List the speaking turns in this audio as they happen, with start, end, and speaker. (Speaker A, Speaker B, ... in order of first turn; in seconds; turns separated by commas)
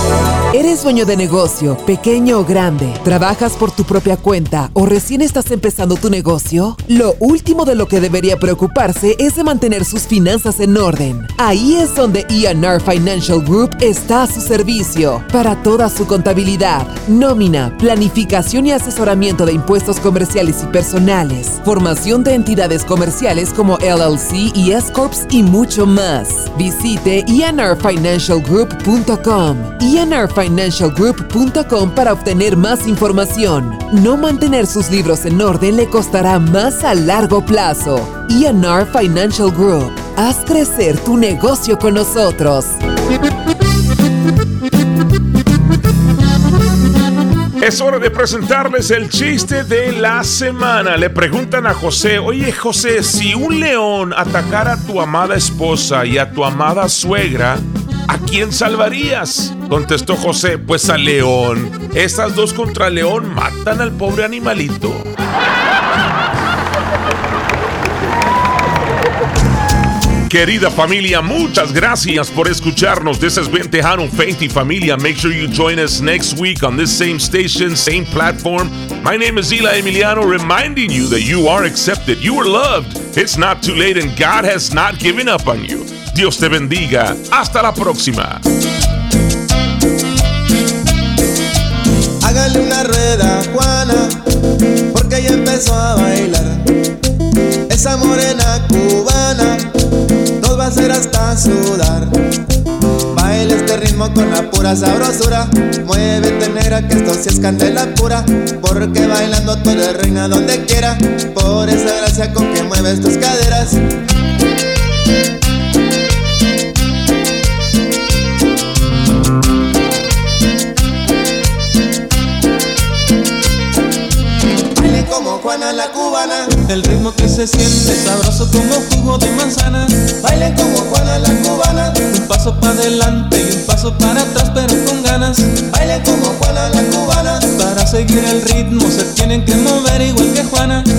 Speaker A: 0.5-42.8, Speaker B: 47.6-65.1, Speaker B: 70.3-88.4, Speaker C: 92.2-94.2, Speaker C: 94.9-96.6, Speaker C: 97.7-99.7, Speaker C: 100.4-102.1, Speaker C: 103.1-113.8, Speaker C: 124.8-126.6, Speaker D: 126.7-130.0, Speaker C: 130.2-132.0, Speaker D: 132.1-135.5, Speaker C: 135.7-137.4, Speaker D: 137.5-140.9